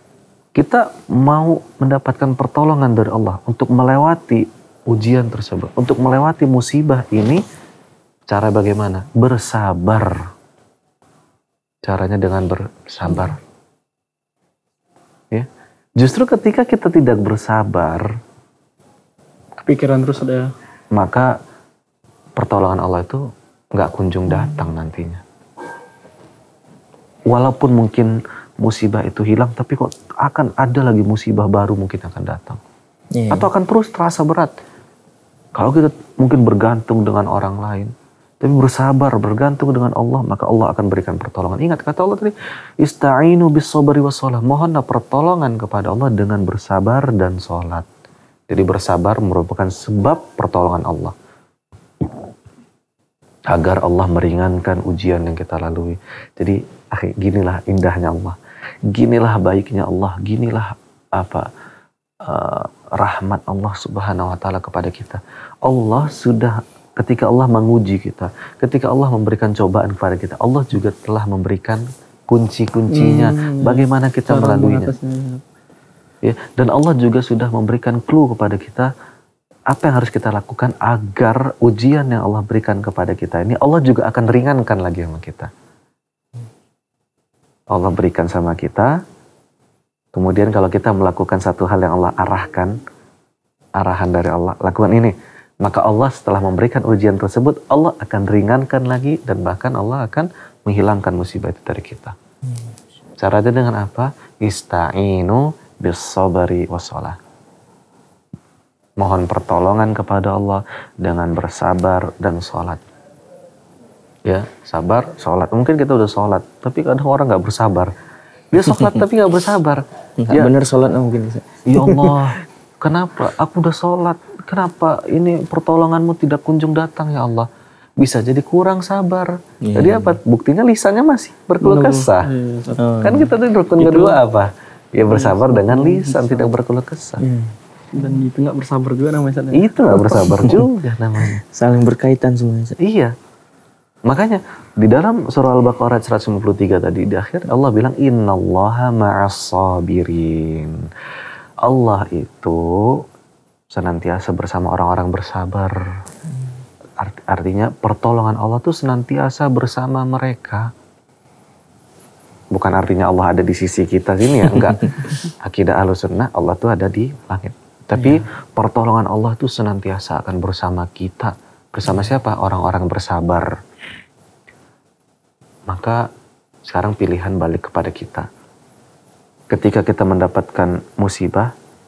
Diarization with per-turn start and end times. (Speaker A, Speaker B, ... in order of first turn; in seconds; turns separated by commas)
Speaker A: 0.6-7.4, Speaker A: 8.3-10.2, Speaker A: 11.8-13.4, Speaker A: 16.0-18.1, Speaker B: 19.6-20.5, Speaker A: 20.9-21.3, Speaker A: 22.4-23.2, Speaker A: 23.8-25.2, Speaker C: 24.3-24.6, Speaker A: 27.3-32.6, Speaker C: 33.2-33.5, Speaker A: 33.3-34.5, Speaker A: 35.5-47.9, Speaker A: 48.5-51.2, Speaker A: 53.5-58.4, Speaker A: 58.9-61.5, Speaker A: 62.2-74.9, Speaker B: 72.9-75.4, Speaker A: 76.2-78.9, Speaker A: 79.7-85.5, Speaker A: 87.7-88.9, Speaker A: 90.1-92.8, Speaker A: 93.8-102.2, Speaker A: 103.2-107.2, Speaker A: 109.0-112.8, Speaker A: 114.3-117.9, Speaker A: 118.5-120.5, Speaker C: 118.7-119.0, Speaker C: 120.2-122.2, Speaker A: 121.7-127.5, Speaker A: 128.0-132.3, Speaker C: 129.7-130.2, Speaker B: 131.6-132.9, Speaker C: 132.8-133.3, Speaker A: 133.0-137.2, Speaker B: 133.8-134.2, Speaker B: 135.1-136.5, Speaker C: 137.2-137.5, Speaker B: 137.9-140.1, Speaker A: 139.5-141.4, Speaker C: 140.0-140.7, Speaker C: 141.2-142.8, Speaker A: 142.8-143.1, Speaker A: 144.1-150.9, Speaker A: 151.6-153.1, Speaker A: 153.7-155.8, Speaker A: 157.0-160.7, Speaker A: 162.5-173.5, Speaker A: 175.7-176.1, Speaker A: 176.7-178.3, Speaker A: 179.5-181.5